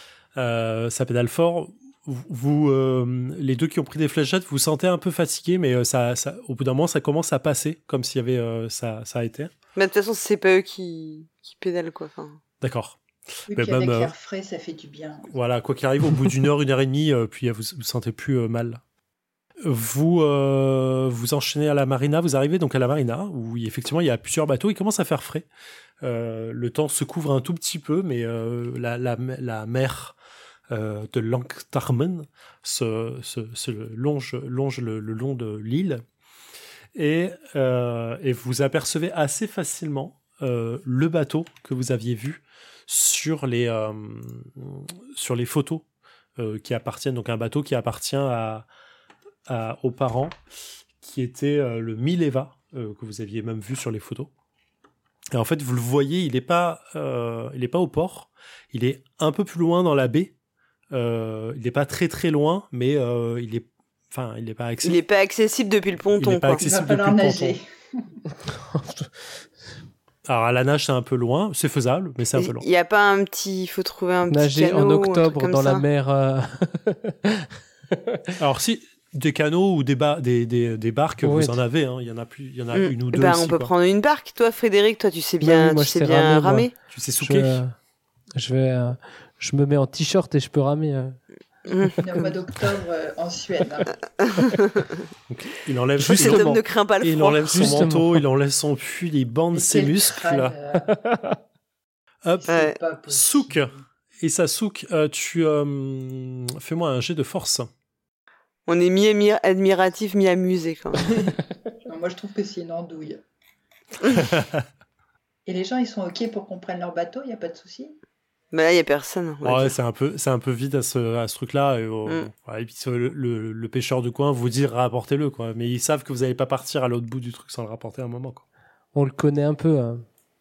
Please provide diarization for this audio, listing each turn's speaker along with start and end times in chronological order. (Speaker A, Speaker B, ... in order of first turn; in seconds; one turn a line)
Speaker A: 0.3-9.5
Speaker B: 9.8-12.4
Speaker A: 12.6-14.1
Speaker C: 13.5-15.3
Speaker A: 15.3-18.8
Speaker A: 19.6-25.5
Speaker A: 26.0-30.2
Speaker A: 30.7-36.0
Speaker A: 37.0-45.9
Speaker A: 46.4-48.7
Speaker A: 49.5-50.4
Speaker A: 51.0-54.3
Speaker A: 55.3-60.3
Speaker A: 60.9-65.0
Speaker B: 64.8-66.6
Speaker A: 66.2-67.6
Speaker C: 66.6-68.1
Speaker D: 68.4-69.5
Speaker A: 70.3-72.7
Speaker B: 72.4-75.8
Speaker D: 74.3-77.4
Speaker D: 77.9-78.3
Speaker A: 78.4-83.7
Speaker D: 81.2-81.6
Speaker B: 82.7-86.7
Speaker D: 85.4-87.8
Speaker A: 86.9-87.6
Speaker D: 88.4-91.2
Speaker B: 91.7-92.0
Speaker D: 91.8-92.3
Speaker C: 91.8-94.0
Speaker B: 94.2-95.0
Speaker A: 95.3-100.5
Speaker B: 96.0-97.8
Speaker D: 97.5-98.2
Speaker C: 99.5-100.9
Speaker D: 100.9-101.4
Speaker A: 102.2-102.5
Speaker C: 102.4-103.8
Speaker B: 102.5-102.8
Speaker A: 103.0-107.7
Speaker B: 108.7-111.3
Speaker C: 111.8-113.2
Speaker A: 114.3-114.6
Speaker C: 115.5-118.0
Speaker B: 118.5-119.8
Speaker A: 119.4-128.4
Speaker D: 128.9-130.1